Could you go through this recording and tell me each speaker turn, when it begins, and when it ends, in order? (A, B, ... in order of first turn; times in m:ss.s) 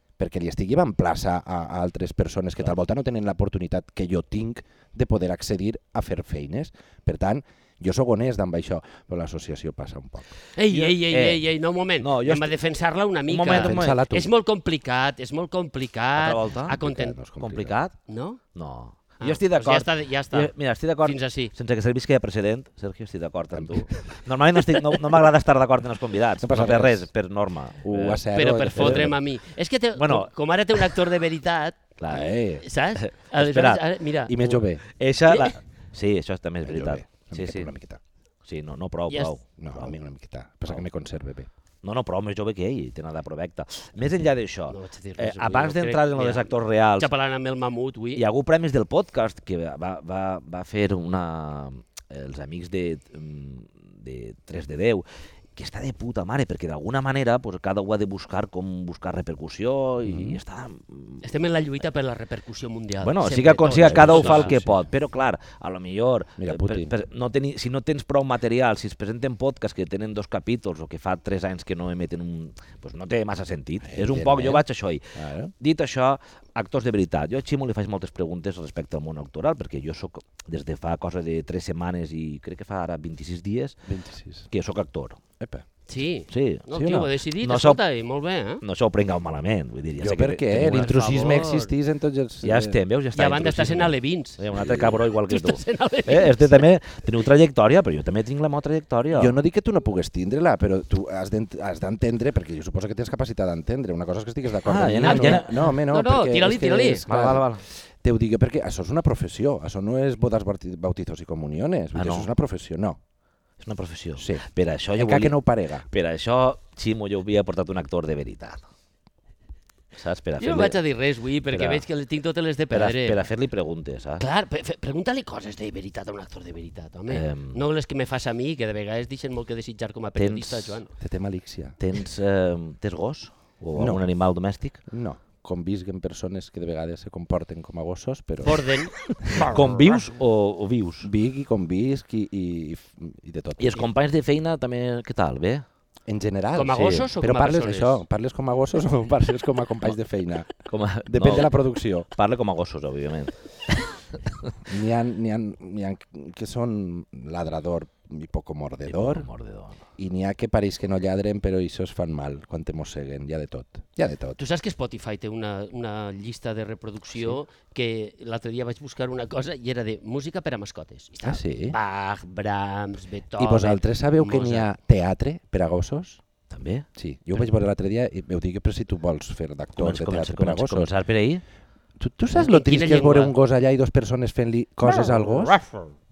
0:00.2-0:10.3 A
0:10.6-0:17.2 B
0:10.7-0:11.4 C
0:12.0-0:12.5 C
0:13.3-0:14.0 C
0:13.5-0:14.3 A
0:16.2-0:16.8 C
0:16.8-0:17.8 A
0:17.4-0:17.9 C
0:18.1-0:18.4 B
0:18.5-0:29.1 C
0:19.2-0:21.5 B
0:23.5-0:23.9 A
0:26.4-0:27.1 A
0:27.8-0:29.2 A
0:28.3-0:31.9 B
0:30.0-0:30.3 C
0:32.0-0:32.2 C
0:32.1-0:32.6 A
0:32.6-0:34.6 B
0:32.9-0:33.8 C
0:34.3-0:34.8 A
0:34.9-0:37.7 C
0:36.6-0:38.0 A
0:38.4-0:39.9 C
0:39.6-0:41.5 A
0:41.8-0:47.1 C
0:44.7-0:46.5 B
0:47.0-0:48.2 B
0:48.1-1:01.2 C
1:00.0-1:00.4 A
1:01.2-1:04.6 B
1:03.0-1:23.8 C
1:03.8-1:04.8 A
1:06.4-1:06.9 A
1:13.8-1:14.6 A
1:15.1-1:15.5 A
1:23.8-1:24.5 A
1:24.5-1:25.2 C
1:25.4-1:25.6 A
1:25.9-1:28.6 B
1:26.3-1:26.7 C
1:26.7-1:27.1 A
1:27.4-1:27.8 C
1:28.6-1:31.0 C
1:30.0-1:32.8 A
1:30.7-1:31.7 B
1:32.4-1:39.3 C
1:33.1-1:36.7 B
1:39.1-1:47.5 A
1:44.6-1:45.5 C
1:45.1-1:47.0 B
1:47.0-1:47.6 C
1:48.0-1:53.0 A
1:51.9-1:52.3 C
1:53.6-1:58.7 C
1:54.2-1:55.8 A
1:59.9-2:00.8 C
2:00.4-2:03.2 B
2:01.5-2:01.8 C
2:02.7-2:04.2 C
2:04.2-2:10.9 B
2:07.1-2:07.6 C
2:10.2-2:10.8 C
2:11.0-2:11.8 A
2:11.8-2:14.8 C
2:13.8-2:14.0 A
2:14.9-2:18.6 A
2:18.4-2:19.6 B
2:19.1-2:21.1 C
2:19.2-2:19.6 A
2:21.0-2:23.8 A
2:23.6-2:25.6 C
2:26.1-2:30.5 A
2:26.5-2:28.0 B
2:26.8-2:27.0 C
2:30.7-2:31.5 C
2:31.0-2:32.1 A
2:32.1-2:33.9 C
2:34.6-2:39.3 A
2:38.9-2:39.8 C
2:40.0-2:44.4 A
2:44.4-2:54.7 B
2:51.2-2:51.8 A
2:53.4-2:56.2 A
2:56.5-2:56.8 C
2:57.0-3:00.9 A
2:59.8-3:01.4 C
3:02.0-3:05.6 A
3:02.3-3:03.3 B